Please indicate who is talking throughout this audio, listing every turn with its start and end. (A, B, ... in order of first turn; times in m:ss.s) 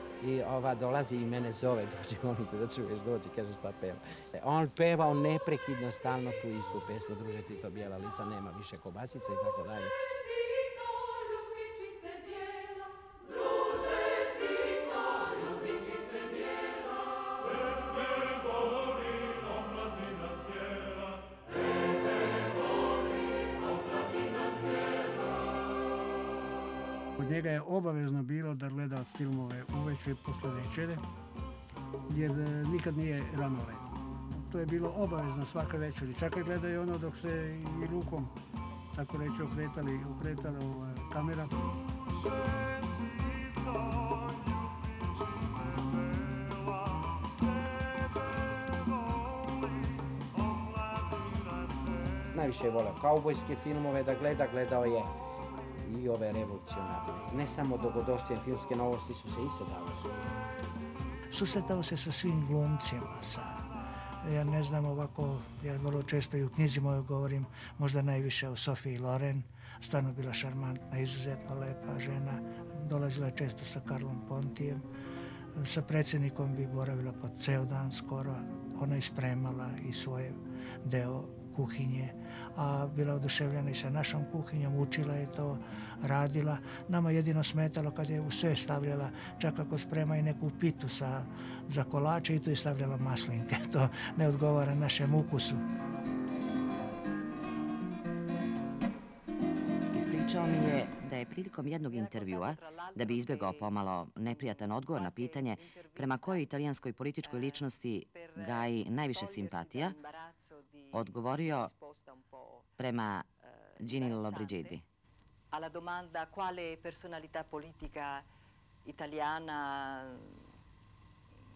0:00.2-0:09.9 A
0:27.2-0:31.0 B
0:32.1-0:38.3 B
0:38.9-0:41.5 B
0:52.3-0:55.1 A
0:55.8-1:00.2 A
1:01.3-1:03.7 C
1:04.2-1:14.8 C
1:15.6-1:35.6 C
1:39.9-1:50.0 D
1:41.9-1:46.6 E
1:47.2-1:52.7 E
1:50.9-1:51.7 D
1:52.8-1:53.3 D
1:53.4-1:54.8 E
1:53.8-1:54.8 D
1:55.5-1:58.2 E
1:58.8-2:00.5 E